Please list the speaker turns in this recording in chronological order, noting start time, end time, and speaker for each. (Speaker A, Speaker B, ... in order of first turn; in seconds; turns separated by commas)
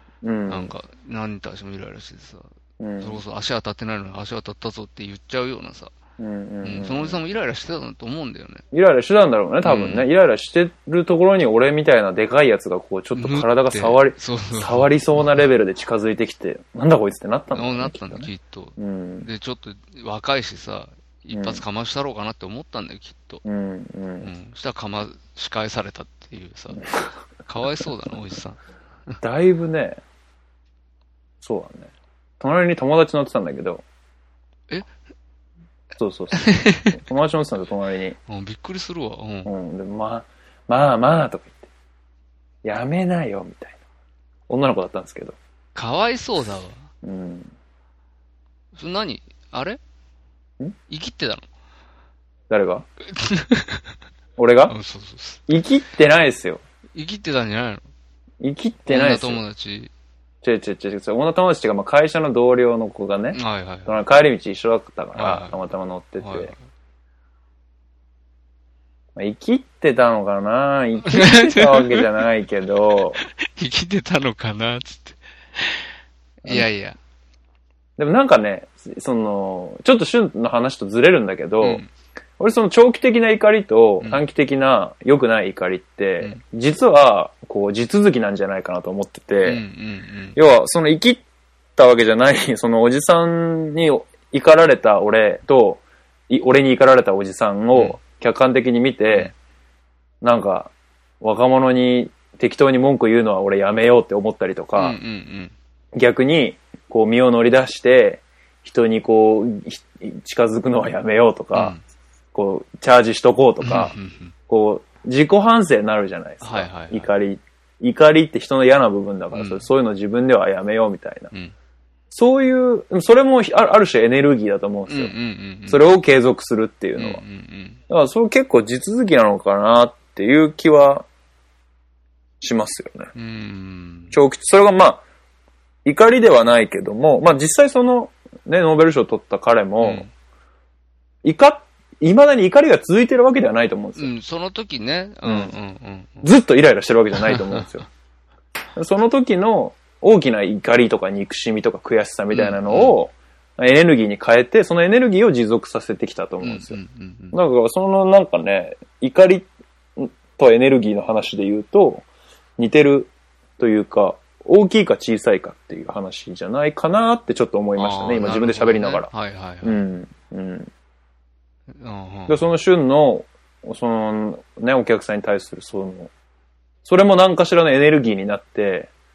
Speaker A: 0.2-0.7, Speaker B: 0.5-5.9, Speaker A: 2.8-3.2, Speaker A: 6.2-7.2, Speaker B: 6.6-8.6, Speaker A: 8.7-19.3, Speaker B: 9.6-10.1, Speaker B: 13.1-15.4, Speaker B: 17.5-23.4, Speaker A: 21.3-21.6, Speaker A: 23.4-24.3, Speaker B: 24.2-29.2, Speaker A: 26.8-27.1, Speaker A: 29.2-30.0, Speaker A: 31.4-33.8, Speaker A: 36.0-38.2, Speaker B: 36.3-37.0, Speaker B: 38.3-39.5, Speaker A: 39.5-41.7, Speaker A: 42.6-43.8, Speaker A: 44.5-45.4, Speaker B: 45.7-46.9, Speaker A: 47.0-47.5, Speaker B: 48.7-49.8, Speaker B: 50.9-51.4, Speaker A: 52.5-52.8, Speaker B: 53.1-53.9, Speaker A: 54.4-54.7, Speaker B: 54.7-55.4, Speaker A: 55.5-56.6, Speaker B: 56.9-57.9, Speaker A: 58.4-59.4, Speaker B: 58.9-59.9, Speaker A: 60.4-66.5, Speaker B: 63.3-64.0, Speaker B: 65.1-65.6, Speaker B: 66.2-66.6, Speaker A: 69.2-73.2, Speaker B: 71.1-72.1, Speaker B: 73.2-75.9, Speaker B: 76.5-77.0, Speaker A: 78.0-81.8, Speaker B: 81.6-81.9, Speaker A: 82.4-89.6, Speaker B: 89.4-90.4, Speaker A: 90.3-91.2, Speaker A: 91.8-99.3, Speaker B: 97.7-98.0, Speaker A: 100.2-105.0, Speaker B: 104.8-105.5, Speaker A: 105.9-111.8, Speaker B: 111.5-111.8, Speaker A: 112.3-113.9, Speaker B: 113.6-114.3, Speaker A: 114.5-121.3, Speaker B: 116.4-117.1, Speaker B: 119.3-119.6, Speaker A: 122.1-125.1, Speaker B: 124.9-125.8, Speaker A: 125.7-127.2, Speaker B: 127.0-127.8, Speaker A: 127.9-131.1, Speaker A: 132.4-133.1, Speaker B: 133.1-134.1, Speaker A: 134.1-135.0, Speaker A: 135.8-140.1, Speaker B: 139.8-140.1, Speaker A: 141.2-144.1, Speaker B: 143.9-146.3, Speaker A: 145.2-145.5, Speaker A: 146.2-147.8, Speaker B: 147.2-147.8, Speaker A: 148.8-156.8, Speaker B: 152.3-153.0, Speaker B: 156.4-157.4, Speaker A: 157.3-162.1, Speaker A: 162.6-169.1, Speaker B: 167.8-169.8, Speaker A: 169.6-170.7, Speaker B: 171.7-172.4, Speaker A: 172.3-176.1, Speaker A: 176.8-178.9